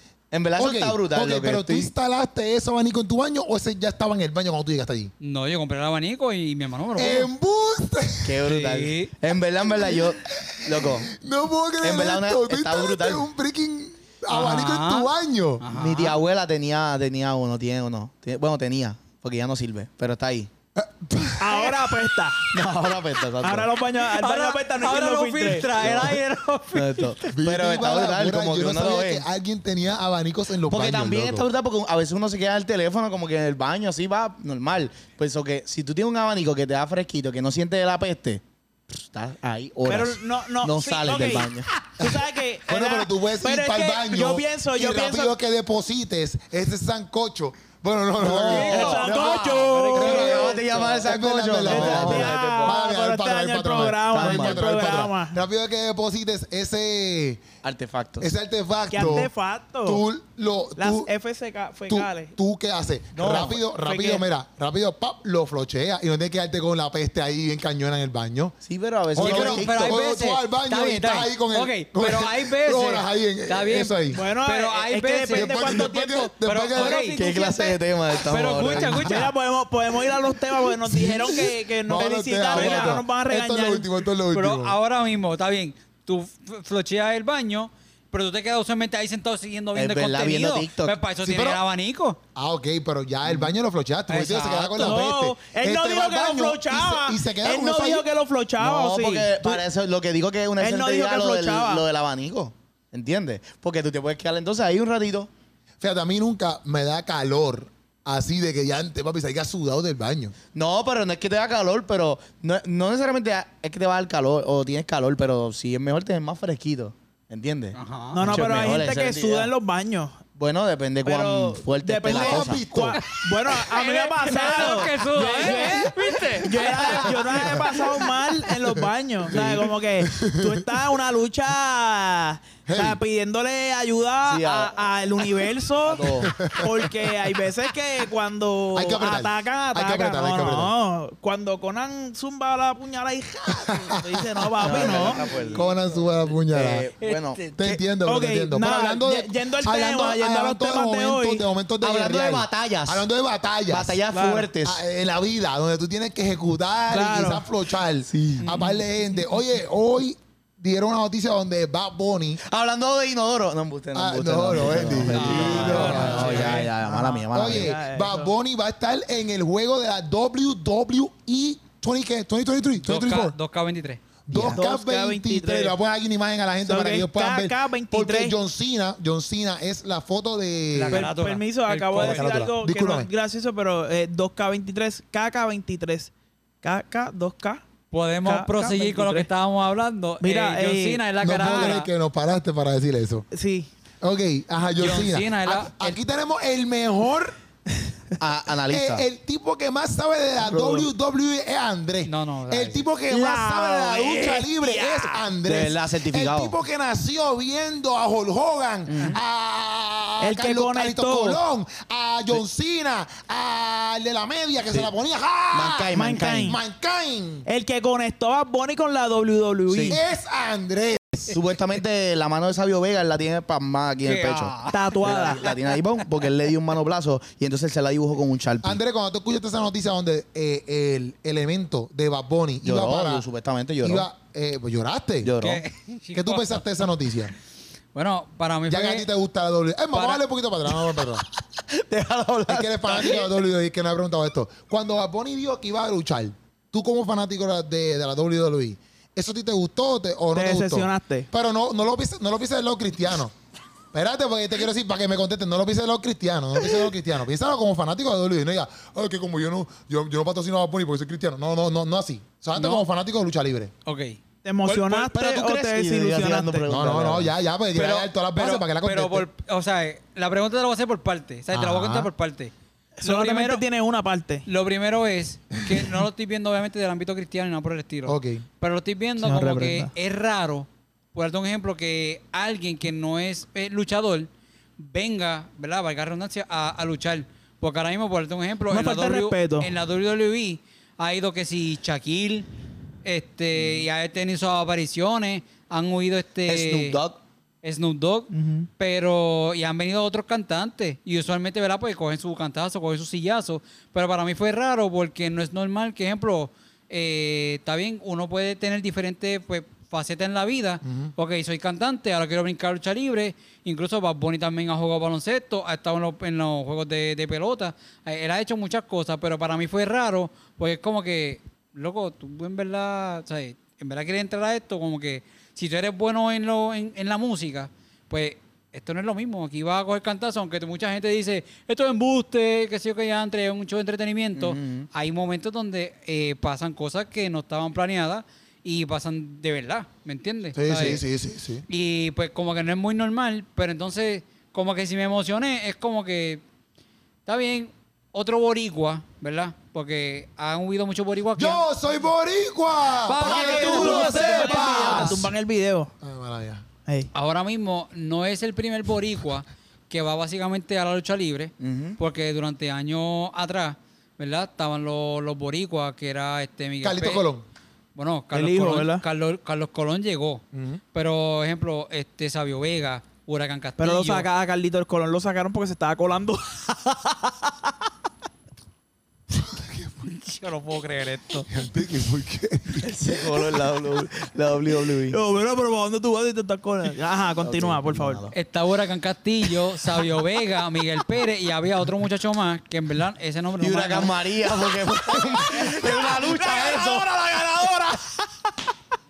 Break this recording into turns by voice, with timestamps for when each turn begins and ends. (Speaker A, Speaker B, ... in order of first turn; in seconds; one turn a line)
Speaker A: 0.3-1.9
Speaker B: 0.6-5.1
Speaker C: 5.2-7.3
Speaker B: 7.0-8.4
Speaker A: 8.2-11.1
Speaker C: 8.4-9.1
Speaker B: 9.8-15.6
Speaker A: 11.8-13.2
Speaker C: 14.3-16.2
Speaker A: 15.7-20.5
Speaker B: 20.8-21.8
Speaker D: 21.4-22.5
Speaker A: 22.5-23.7
Speaker D: 23.4-26.0
Speaker C: 24.1-27.3
Speaker A: 25.8-26.2
Speaker A: 26.7-29.2
Speaker B: 27.3-31.5
Speaker A: 30.7-42.1
Speaker D: 39.9-45.4
Speaker B: 42.7-49.0
Speaker A: 48.2-52.8
Speaker C: 48.5-50.9
Speaker D: 48.5-51.0
Speaker B: 50.0-57.4
Speaker D: 51.6-55.4
Speaker A: 54.1-54.7
Speaker A: 57.6-58.3
Speaker B: 58.2-59.3
Speaker D: 58.9-60.0
Speaker B: 59.9-61.1
Speaker D: 60.8-62.3
Speaker B: 61.9-68.5
Speaker A: 63.1-63.6
Speaker D: 63.3-64.2
Speaker A: 68.6-70.0
Speaker B: 69.2-74.2
Speaker C: 69.2-77.2
Speaker D: 74.1-77.8
Speaker B: 75.3-77.0
Speaker A: 77.1-79.3
Speaker C: 78.3-79.3
Speaker D: 78.9-83.9
Speaker B: 81.0-84.8
Speaker C: 82.5-82.9
Speaker C: 84.3-92.2
Speaker A: 89.8-91.0
Speaker B: 91.2-91.6
Speaker B: 92.3-98.1
Speaker C: 94.1-95.1
Speaker D: 94.8-99.6
Speaker A: 98.6-105.3
Speaker D: 100.6-101.8
Speaker B: 105.8-110.3
Speaker A: 110.5-119.5
Speaker C: 117.8-118.2
Speaker D: 118.1-120.2
Speaker B: 118.2-118.6
Speaker A: 120.4-122.6
Speaker D: 121.0-145.7
Speaker B: 122.1-123.0
Speaker C: 123.0-128.1
Speaker A: 124.6-127.1
Speaker A: 129.3-129.8
Speaker B: 130.0-130.7
Speaker B: 132.7-133.0
Speaker A: 134.2-134.9
Speaker A: 135.8-136.5
Speaker B: 136.2-136.9
Speaker B: 138.7-140.7
Speaker B: 143.7-146.9
Speaker A: 144.6-145.7
Speaker A: 146.5-147.5
Speaker C: 147.0-147.7
Speaker B: 147.6-154.0
Speaker D: 148.0-151.4
Speaker A: 151.8-153.1
Speaker A: 153.7-154.8
Speaker D: 154.1-154.5
Speaker B: 154.6-162.4
Speaker D: 156.9-157.5
Speaker A: 158.1-158.4
Speaker C: 158.4-158.8
Speaker A: 162.4-167.8
Speaker B: 163.9-166.7
Speaker C: 165.1-166.7
Speaker D: 165.8-168.3
Speaker B: 167.3-173.3
Speaker C: 172.8-174.0
Speaker B: 174.3-181.1
Speaker D: 174.3-175.8
Speaker D: 176.7-178.3
Speaker C: 180.7-182.5
Speaker D: 180.9-186.1
Speaker B: 182.0-183.1
Speaker D: 186.6-187.6
Speaker C: 187.9-191.9
Speaker D: 188.2-189.3
Speaker D: 190.2-191.8
Speaker B: 191.2-193.3
Speaker D: 193.3-193.7
Speaker B: 194.0-197.4
Speaker C: 194.8-196.0
Speaker A: 198.2-199.0
Speaker B: 198.7-215.9
Speaker D: 200.4-200.9
Speaker C: 202.1-202.9
Speaker D: 203.1-205.2
Speaker A: 205.4-206.6
Speaker A: 208.9-209.2
Speaker D: 210.2-211.4
Speaker A: 215.5-216.6
Speaker D: 215.9-216.6
Speaker B: 216.5-217.4
Speaker D: 217.5-220.0
Speaker A: 219.7-220.0
Speaker B: 219.9-221.3
Speaker A: 221.3-228.8
Speaker C: 224.0-225.6
Speaker D: 224.7-225.5
Speaker B: 228.6-233.3
Speaker A: 232.6-234.1
Speaker B: 233.8-235.3
Speaker A: 235.2-235.6
Speaker C: 235.4-236.6
Speaker B: 236.1-237.3
Speaker C: 237.9-239.1
Speaker B: 238.7-241.2
Speaker C: 239.9-240.2
Speaker A: 241.6-243.3
Speaker B: 242.5-253.3
Speaker D: 250.3-251.3
Speaker B: 253.9-263.7
Speaker C: 262.6-262.9
Speaker C: 263.9-264.2
Speaker D: 264.4-266.7
Speaker A: 264.6-268.0
Speaker B: 266.7-269.3
Speaker C: 267.8-273.6
Speaker B: 271.5-272.1
Speaker D: 273.0-274.5
Speaker C: 274.5-292.5
Speaker B: 278.1-278.4
Speaker D: 279.2-279.9
Speaker D: 288.7-289.7
Speaker C: 293.0-297.0
Speaker A: 296.5-297.2
Speaker C: 297.6-341.0
Speaker D: 298.3-298.7
Speaker B: 310.8-311.1
Speaker A: 334.4-334.9
Speaker B: 340.6-341.6
Speaker C: 341.7-346.4
Speaker C: 347.3-351.6
Speaker B: 351.4-355.2
Speaker C: 353.1-355.2
Speaker A: 353.2-355.2
Speaker D: 353.4-355.9
Speaker B: 356.0-356.6
Speaker C: 357.1-367.3
Speaker A: 361.6-362.0
Speaker B: 366.8-367.4
Speaker C: 368.0-370.4
Speaker D: 368.3-369.0
Speaker B: 370.5-370.8
Speaker C: 370.9-374.3
Speaker D: 373.8-377.7
Speaker B: 379.5-379.9
Speaker C: 380.1-381.5
Speaker B: 381.5-383.0
Speaker A: 382.8-385.2
Speaker D: 385.1-388.3
Speaker A: 387.4-388.3
Speaker C: 388.3-394.1
Speaker A: 393.6-397.1
Speaker D: 395.1-398.3